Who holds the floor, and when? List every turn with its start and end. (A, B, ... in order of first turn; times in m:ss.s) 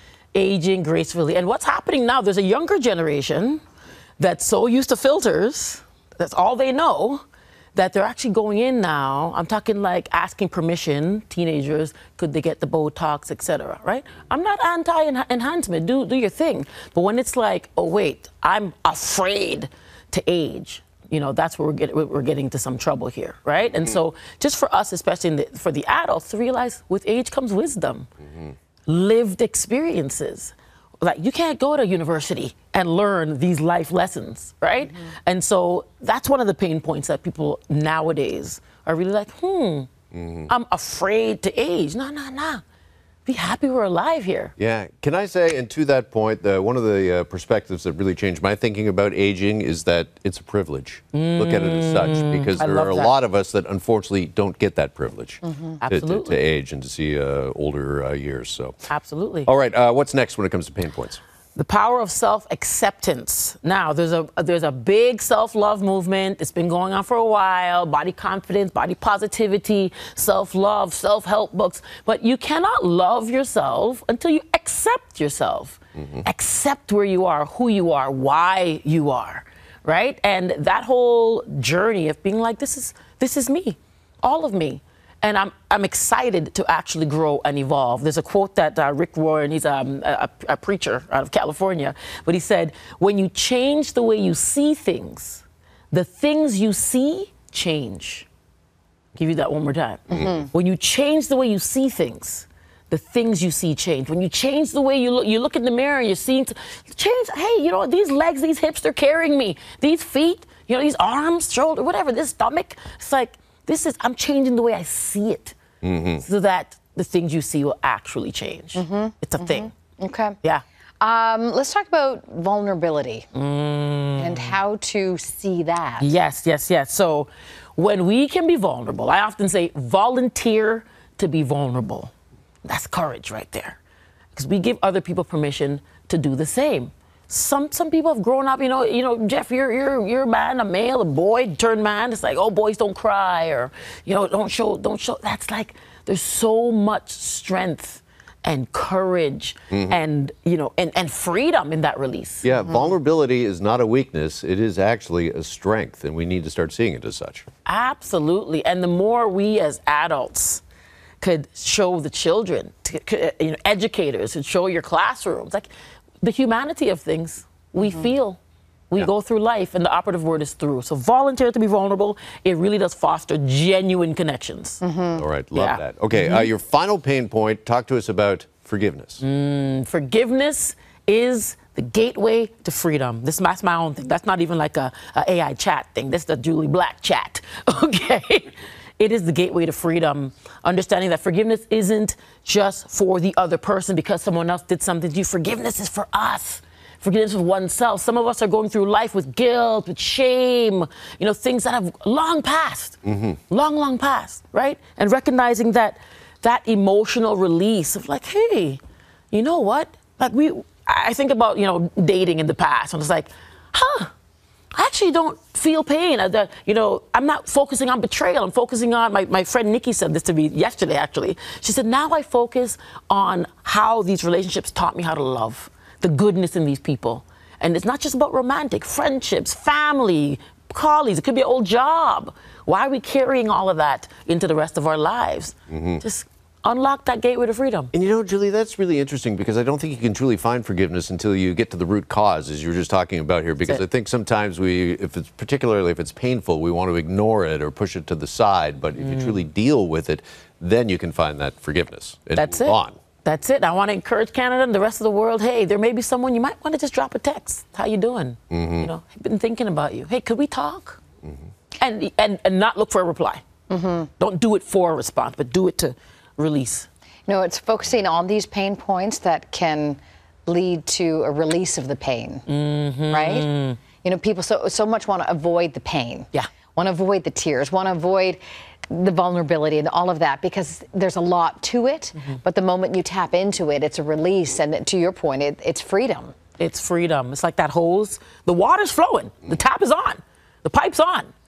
0:00.3-0:03.6 A
0:04.2-0:07.2 A
0:07.7-0:28.1 A
0:28.9-0:39.9 A
0:34.8-0:35.1 B
0:40.1-0:40.5 C
0:40.5-0:42.6 A
0:43.2-0:44.5 A
0:44.6-0:58.7 C
0:51.1-0:53.1 A
0:55.4-0:55.8 B
0:55.8-0:56.4 A
0:58.9-0:59.5 A
0:59.4-1:01.2 C
1:01.6-1:38.3 A
1:39.1-1:55.5 A
1:40.1-1:40.5 B
1:55.8-1:56.2 C
1:56.2-1:59.7 A
1:58.7-2:00.4 B
2:01.0-2:03.2 B
2:03.3-2:04.6 A
2:04.2-2:06.2 B
2:06.0-2:12.1 A
2:12.6-2:13.8 A
2:14.3-2:32.5 A
2:29.7-2:30.0 C
2:32.4-2:37.4 C
2:37.6-2:40.6 A
2:41.2-2:45.7 A
2:46.2-2:48.4 A
2:47.8-2:48.1 B
2:48.9-2:54.8 A
2:54.8-2:55.2 B
2:55.2-2:59.2 C
2:55.5-2:56.5 A
2:59.2-3:28.8 A
3:23.0-3:23.4 C
3:29.3-3:34.1 A
3:34.7-3:57.9 A
3:55.7-3:56.0 C
3:57.9-4:13.0 C
4:09.0-4:09.4 A
4:12.4-4:21.0 A
4:18.5-4:18.9 C
4:21.8-4:23.4 A
4:23.7-4:24.1 B
4:24.2-4:26.9 A
4:27.3-4:32.4 B
4:32.5-4:33.8 A
4:33.1-4:33.5 B
4:34.0-4:46.3 B
4:46.6-4:51.3 A